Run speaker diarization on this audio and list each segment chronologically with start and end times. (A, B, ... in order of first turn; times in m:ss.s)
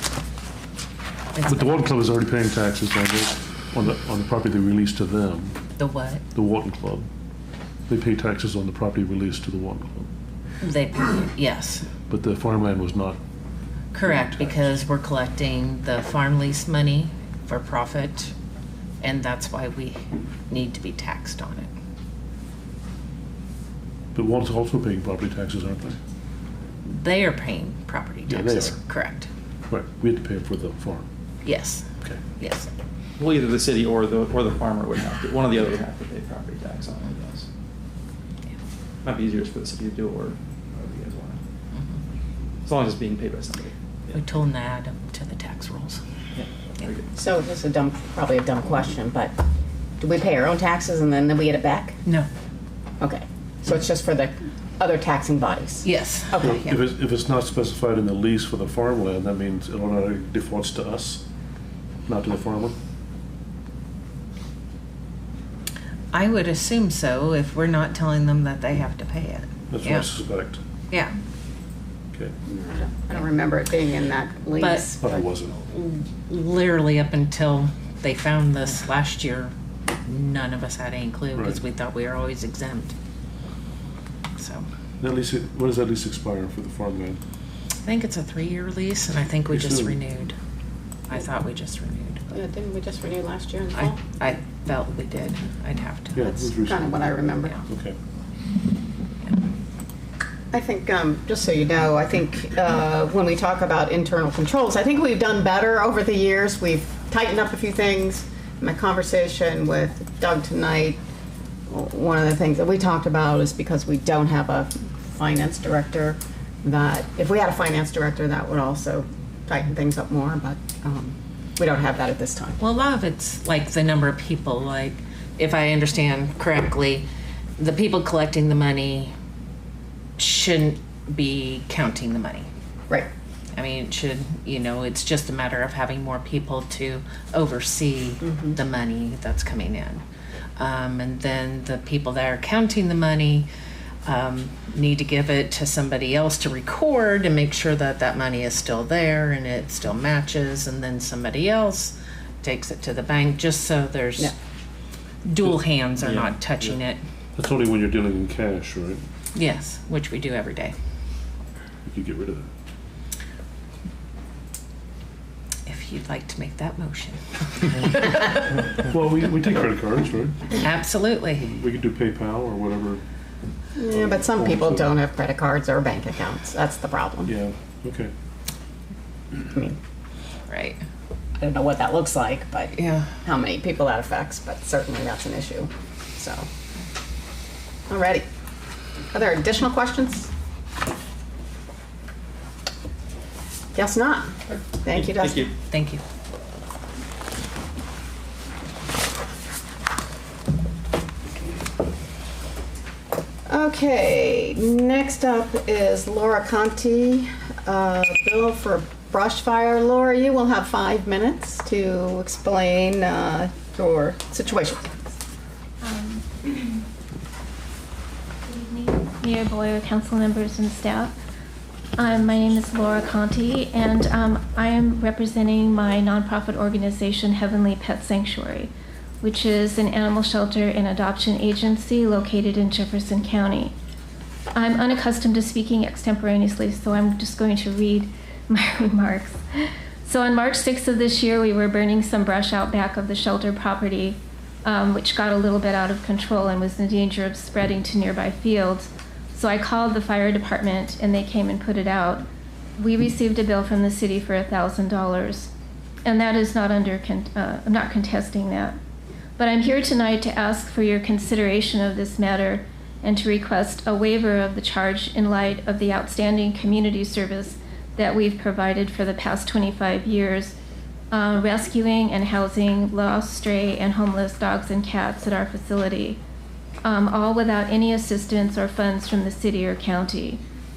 0:01.3-0:01.8 A
0:01.5-0:05.6 B
0:05.8-0:06.2 A
0:06.3-0:07.1 B
0:07.9-0:10.1 B
0:10.6-0:11.9 A
0:12.1-0:13.2 B
0:13.9-0:18.3 A
0:14.0-0:14.8 B
0:19.0-0:21.7 A
0:24.1-0:26.0 B
0:26.8-0:29.3 A
0:28.3-0:28.8 B
0:29.7-0:31.1 B
0:31.4-0:32.7 A
0:33.2-0:37.5 C
0:39.0-0:41.4 C
0:42.6-0:43.7 C
0:44.1-0:46.0 A
0:46.4-0:47.0 C
0:47.1-0:49.3 D
0:50.0-0:52.0 D
0:53.0-0:56.6 D
0:55.8-0:56.8 A
0:56.4-1:01.2 B
1:02.0-1:02.8 B
1:06.1-1:10.1 A
1:09.7-1:10.6 B
1:10.9-1:11.2 A
1:12.5-1:15.2 D
1:14.6-1:14.9 A
1:15.0-1:15.6 B
1:15.6-1:19.5 A
1:20.0-1:22.9 A
1:21.3-1:21.6 B
1:24.4-1:24.7 A
1:25.0-1:27.2 B
1:27.8-1:30.4 A
1:29.5-1:30.0 B
1:31.1-1:32.2 A
1:32.3-1:34.0 D
1:33.8-1:36.3 A
1:36.1-1:38.0 B
1:36.2-1:37.6 D
1:40.5-1:51.0 D
1:51.7-2:02.6 D
2:02.6-2:07.1 A
2:07.6-2:09.1 A
2:10.2-2:12.5 A
2:13.5-2:20.0 A
2:18.2-2:18.6 D
2:20.6-2:23.5 A
2:24.0-2:34.3 A
2:35.2-2:37.0 A
2:36.0-2:36.7 C
2:37.4-2:39.0 B
2:39.3-2:40.7 A
2:41.8-2:42.5 B
2:45.6-2:48.4 A
2:48.7-2:50.5 B
2:50.6-2:51.4 A
2:51.4-2:53.0 B
2:53.8-2:57.3 D
2:53.9-2:54.9 B
2:57.2-2:58.1 B
2:59.4-2:59.8 D
3:00.5-3:00.8 A
3:01.4-3:06.5 D
3:02.8-3:03.1 A
3:07.9-3:08.2 D
3:09.1-3:10.3 D
3:13.7-3:15.5 D
3:15.0-3:15.5 C
3:15.7-3:16.0 A
3:23.5-3:34.8 D
3:35.8-3:36.8 E
3:38.4-3:41.1 E
3:42.0-3:48.7 E
3:49.2-3:53.7 E
3:54.5-4:12.2 E
4:12.8-4:15.5 E
4:16.0-4:18.8 E
4:19.4-4:30.5 E
4:31.1-4:36.2 E
4:36.8-4:40.4 E